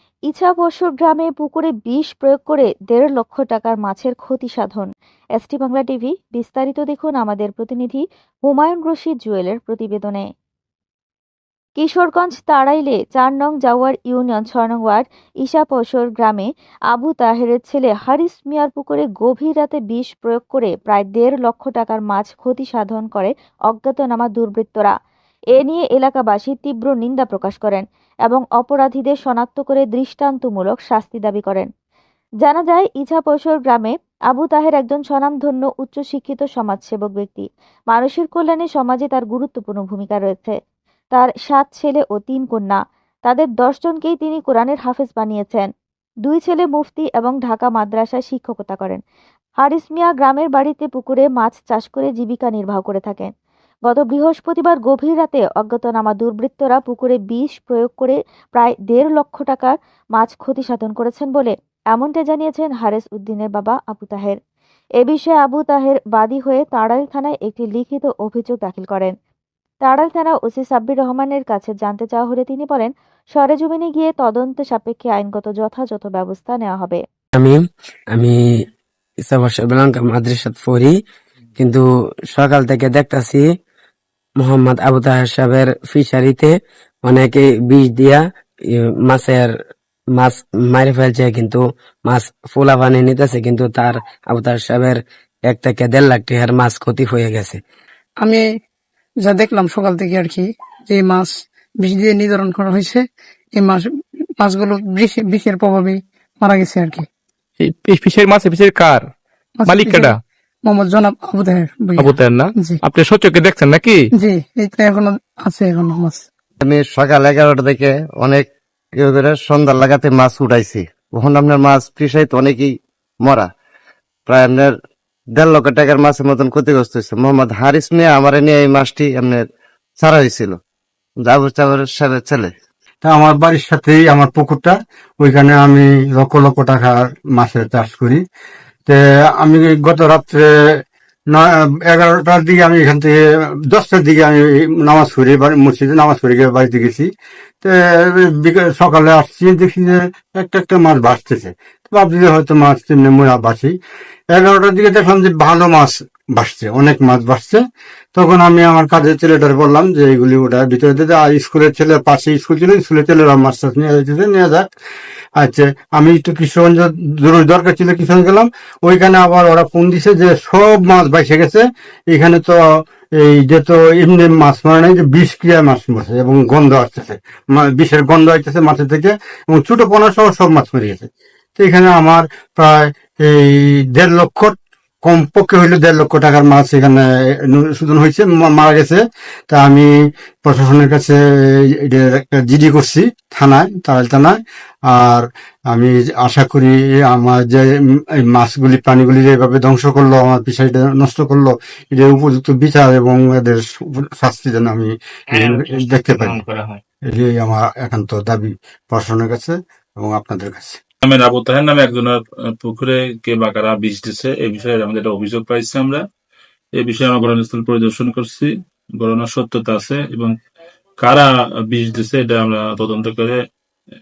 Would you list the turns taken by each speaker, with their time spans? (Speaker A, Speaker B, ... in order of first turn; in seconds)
Speaker A: 0.3-10.2, 11.8-24.9, 25.5-31.7, 32.4-40.5, 41.1-45.7, 46.2-49.0, 49.6-53.3, 53.9-64.4, 65.0-69.1, 69.8-77.0
Speaker B: 80.3-80.9, 82.3-83.4, 84.6-86.5, 87.1-88.2, 89.1-89.5, 90.5-91.7, 92.4-97.4
Speaker C: 99.3-100.4, 100.9-101.3, 101.9-103.0, 104.4-105.9, 106.5-107.0, 110.7-112.1, 114.3-116.1
Speaker D: 107.6-109.1, 109.7-110.2, 112.0-114.1
Speaker E: 116.6-123.5, 124.3-124.7, 125.3-129.4, 130.0-130.6, 131.2-132.5
Speaker F: 133.0-138.2, 138.9-140.5, 141.3-143.2, 143.7-147.1, 147.6-153.7, 154.3-157.6, 158.1-164.7, 165.4-172.6, 173.2-189.9, 190.4-191.2, 191.8-197.7, 198.2-206.4, 207.1-210.8
Speaker G: 211.0-216.0, 216.8-220.3, 221.0-223.4